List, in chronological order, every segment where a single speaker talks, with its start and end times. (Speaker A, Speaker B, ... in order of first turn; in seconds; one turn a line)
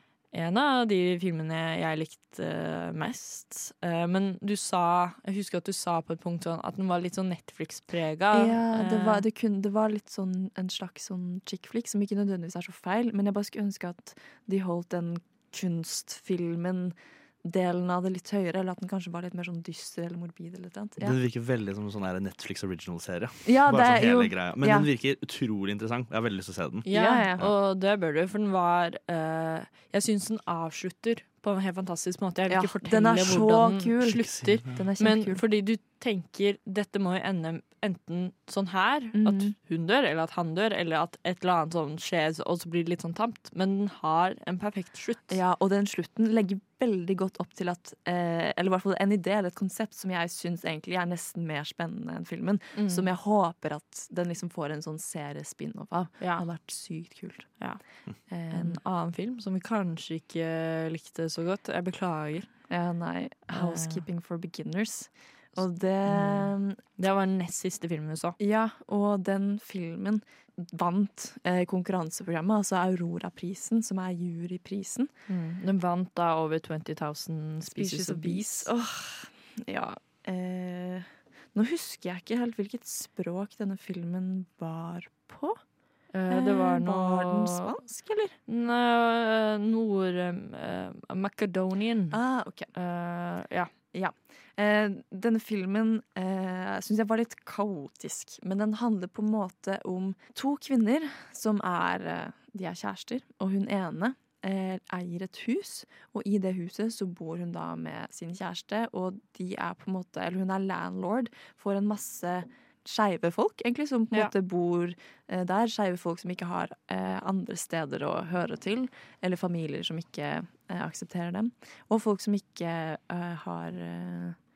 Speaker A: 0.3-9.2
Speaker B: 8.3-21.2
Speaker C: 21.0-26.9
Speaker B: 23.4-24.9
Speaker A: 26.9-45.4
Speaker B: 26.9-27.4
Speaker B: 32.5-35.4
Speaker C: 34.3-34.8
Speaker B: 39.1-39.5
Speaker B: 45.3-57.6
Speaker A: 52.8-53.1
Speaker B: 58.3-58.8
Speaker A: 58.5-62.5
Speaker B: 62.7-66.8
Speaker A: 63.5-64.0
Speaker A: 66.1-68.4
Speaker B: 68.4-75.1
Speaker A: 75.3-78.7
Speaker B: 77.7-85.6
Speaker A: 86.1-87.7
Speaker B: 86.3-88.4
Speaker A: 88.5-92.2
Speaker B: 92.1-92.7
Speaker A: 92.7-93.7
Speaker B: 93.9-124.4